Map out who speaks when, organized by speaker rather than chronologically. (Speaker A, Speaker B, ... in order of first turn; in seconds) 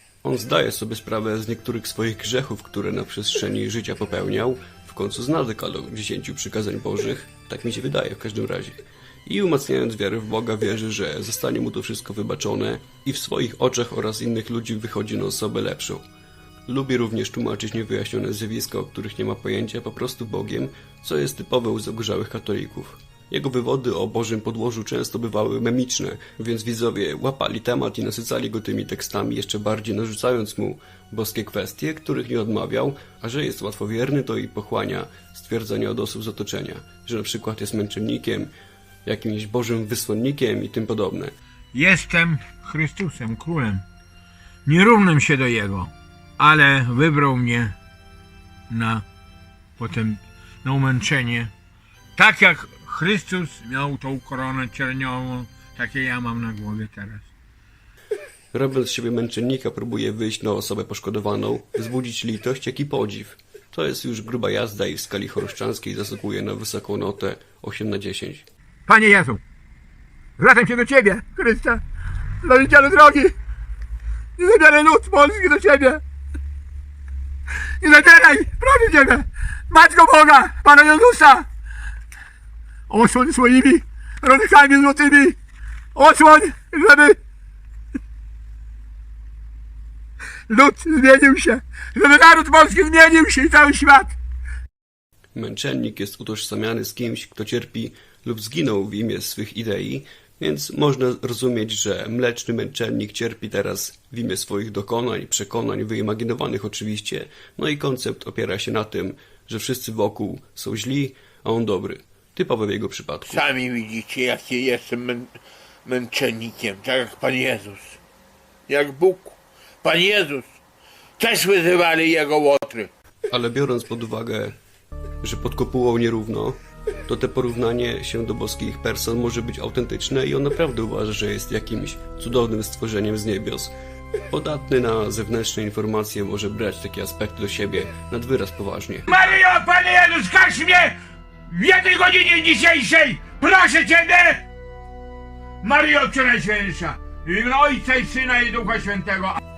Speaker A: 0.2-16.0, 16.7-38.5, 39.0-41.3, 58.5-68.5, 95.3-113.5, 123.3-124.5, 125.2-133.7, 134.3-139.1
Speaker B: 41.7-43.8, 44.6-47.8, 48.7-49.0, 49.8-51.5, 52.2-57.3, 68.9-69.4, 70.4-71.8, 72.4-73.3, 74.4-76.0, 77.8-81.5, 82.9-85.4, 85.9-87.2, 90.5-94.1, 139.1-141.0, 141.5-144.4, 145.6-149.4
Speaker C: 113.3-118.0, 118.7-120.5, 121.2-122.9